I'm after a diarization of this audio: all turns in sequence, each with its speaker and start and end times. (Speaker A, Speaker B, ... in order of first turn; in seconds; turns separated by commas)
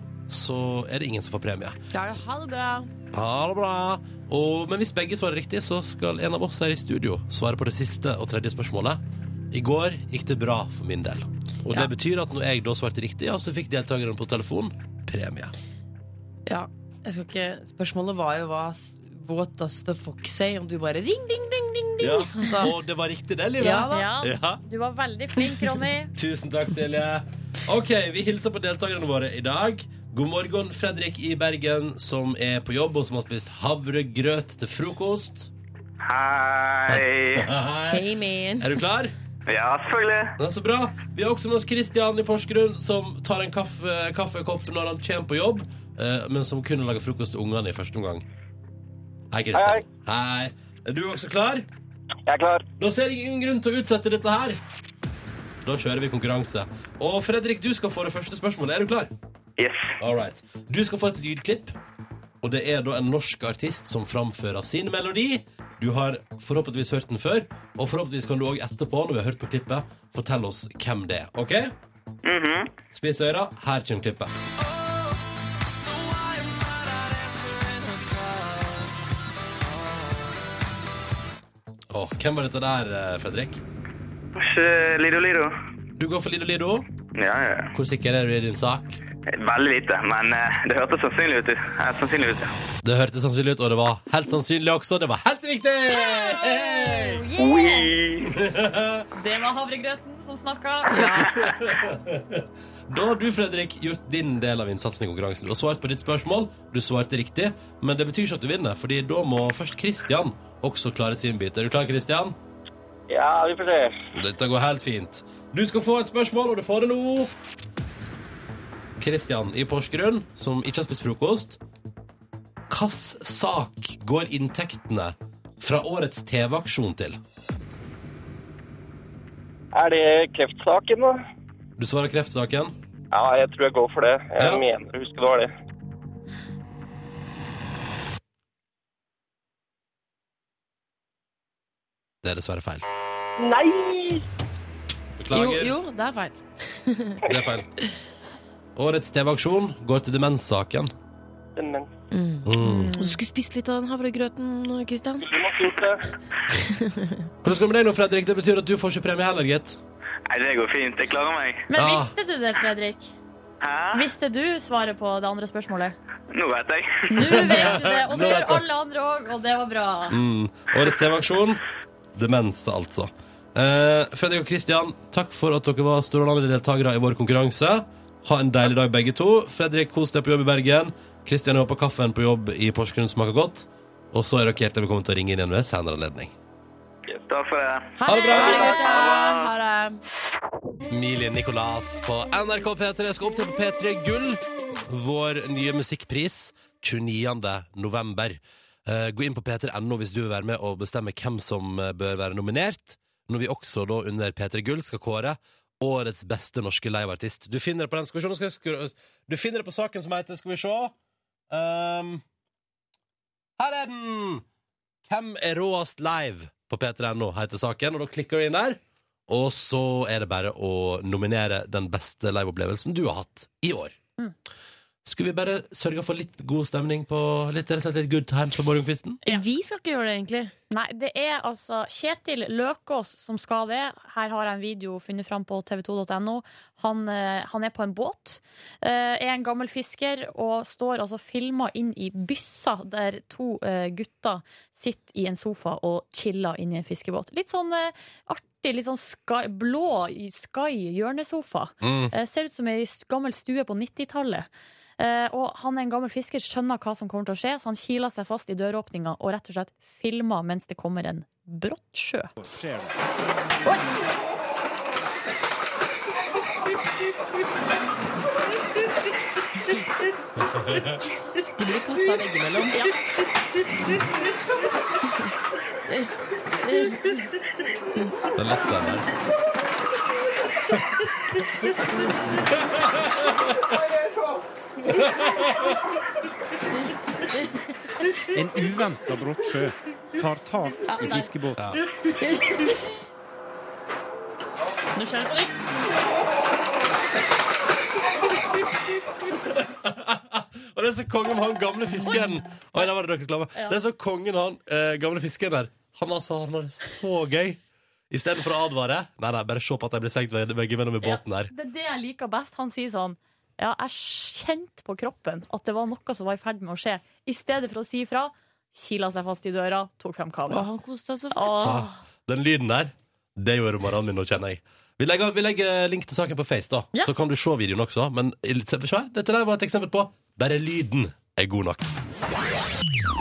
Speaker A: 0.3-1.8, Speaker B: 1.9-2.9, Speaker A: 3.1-9.0, Speaker A: 9.5-15.5, Speaker B: 16.5-22.7, Speaker A: 22.0-24.6, Speaker B: 23.6-24.1, Speaker C: 23.9-26.1, Speaker A: 26.2-35.5, Speaker D: 36.0-37.5, Speaker A: 36.9-38.1, Speaker B: 37.9-38.8, Speaker A: 38.6-39.1, Speaker D: 39.5-40.4, Speaker A: 40.4-48.2, Speaker A: 49.3-51.7, Speaker E: 49.5-49.8, Speaker E: 52.3-52.7, Speaker A: 52.8-54.6, Speaker A: 55.6-59.1, Speaker D: 59.6-59.9, Speaker A: 60.0-61.8, Speaker A: 62.4-71.7, Speaker D: 72.2-72.7, Speaker A: 72.9-74.3, Speaker A: 76.1-78.1, Speaker A: 81.9-83.6, Speaker D: 84.3-85.5, Speaker A: 86.0-86.9, Speaker D: 87.1-87.7, Speaker A: 87.8-89.0, Speaker D: 89.3-92.5, Speaker A: 92.8-97.2, Speaker C: 96.0-97.9, Speaker D: 97.4-98.3, Speaker A: 98.3-99.1, Speaker C: 99.1-101.3, Speaker B: 100.9-101.3, Speaker A: 101.2-112.3, Speaker E: 113.1-114.0, Speaker A: 114.1-117.3, Speaker A: 119.0-121.6, Speaker A: 122.7-127.2, Speaker E: 129.7-131.2, Speaker A: 131.8-132.7, Speaker E: 133.1-135.5, Speaker A: 142.2-142.8, Speaker E: 143.4-144.2, Speaker A: 145.2-145.8, Speaker B: 145.3-147.3, Speaker A: 147.3-147.7, Speaker A: 148.8-150.9, Speaker E: 151.6-151.9, Speaker B: 152.1-155.3, Speaker A: 152.5-152.9, Speaker C: 152.6-153.2, Speaker E: 155.2-156.1, Speaker B: 156.7-157.3, Speaker A: 157.4-159.8, Speaker D: 160.3-161.7, Speaker C: 161.7-163.1, Speaker A: 161.8-162.1, Speaker D: 163.6-164.1, Speaker C: 163.9-166.0, Speaker D: 166.3-167.4, Speaker C: 167.1-170.2, Speaker A: 167.3-168.6, Speaker A: 170.1-171.6, Speaker A: 172.2-186.3, Speaker D: 187.1-189.5, Speaker B: 188.0-190.0, Speaker A: 188.1-188.7, Speaker C: 188.1-188.8, Speaker A: 190.9-210.9, Speaker A: 211.5-212.2, Speaker A: 213.6-214.4, Speaker A: 215.1-223.9, Speaker A: 225.1-229.2, Speaker B: 229.3-230.5, Speaker C: 230.7-254.5, Speaker A: 251.8-252.1, Speaker C: 255.0-262.3, Speaker F: 262.4-262.9, Speaker A: 270.4-271.0, Speaker B: 271.6-272.9, Speaker B: 275.9-277.3, Speaker A: 278.4-279.1, Speaker A: 282.6-283.3, Speaker A: 284.9-285.6, Speaker F: 288.3-291.6, Speaker C: 291.0-291.3, Speaker A: 291.6-291.8, Speaker B: 292.2-292.8, Speaker C: 295.0-295.6, Speaker A: 299.5-307.6, Speaker A: 308.1-311.5, Speaker C: 311.0-320.7, Speaker B: 320.5-321.8, Speaker C: 321.3-322.0, Speaker A: 321.6-331.9